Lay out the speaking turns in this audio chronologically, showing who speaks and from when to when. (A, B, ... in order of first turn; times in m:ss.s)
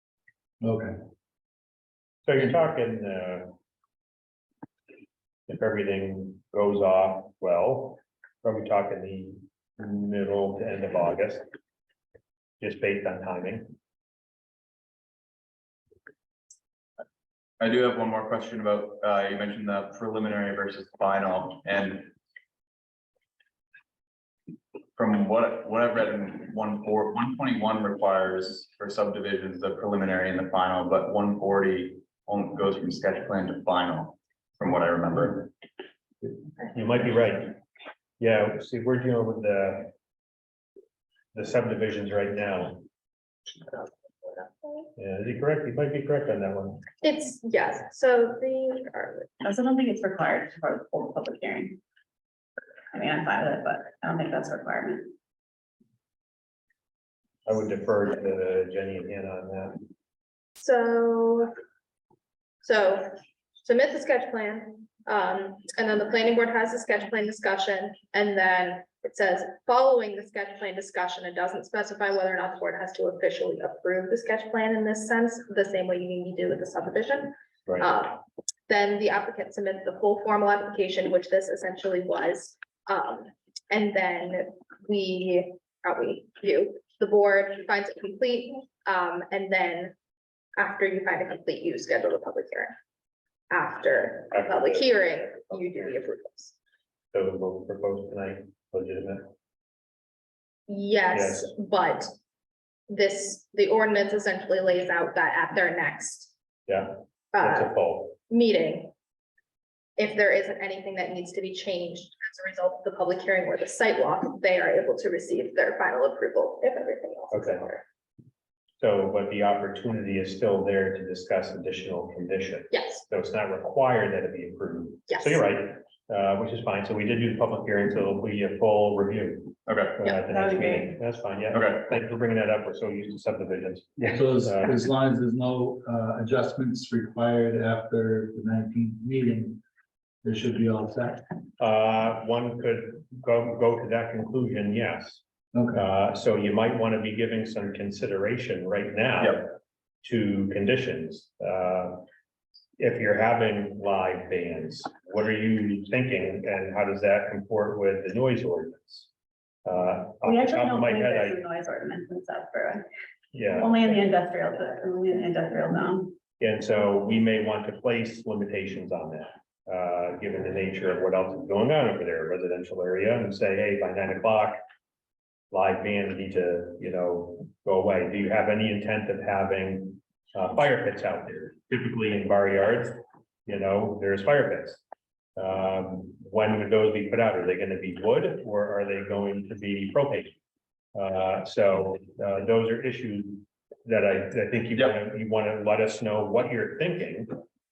0:00.6-0:01.0 A
0:02.2-0:03.5 B
0:05.5-0:11.4 B
0:12.6-0:13.7 B
0:17.6-0:22.1 C
0:25.0-0:35.5 C
0:36.7-0:37.6 B
0:38.2-0:39.9 B
0:41.3-0:42.8 B
0:44.4-0:44.9 D
0:45.0-0:46.8 B
0:47.0-0:49.3 D
0:49.4-0:51.8 E
0:52.9-0:55.1 E
0:57.4-0:59.8 B
1:00.6-1:01.5 D
1:02.6-1:29.9 D
1:30.6-1:32.8 D
1:33.5-1:36.5 D
1:34.3-1:36.0 B
1:37.1-1:39.3 B
1:40.7-1:42.1 D
1:41.1-1:41.5 B
1:42.9-1:46.3 D
1:46.7-1:48.2 B
1:47.3-1:48.9 D
1:50.0-1:57.8 D
1:57.3-1:57.6 B
1:58.8-2:14.7 B
2:02.7-2:03.0 D
2:05.1-2:05.4 D
2:09.7-2:10.0 C
2:10.1-2:11.0 E
2:14.0-2:19.6 A
2:20.2-2:21.2 A
2:21.6-2:25.2 B
2:25.5-2:25.8 A
2:25.7-2:32.0 B
2:32.8-2:39.1 B
2:39.6-2:41.4 B
2:40.2-2:42.9 E
2:43.3-2:43.9 B
2:43.5-2:46.2 E
2:46.4-2:54.6 B
2:55.5-3:04.8 B
3:05.4-3:10.3 B
3:10.9-3:17.4 B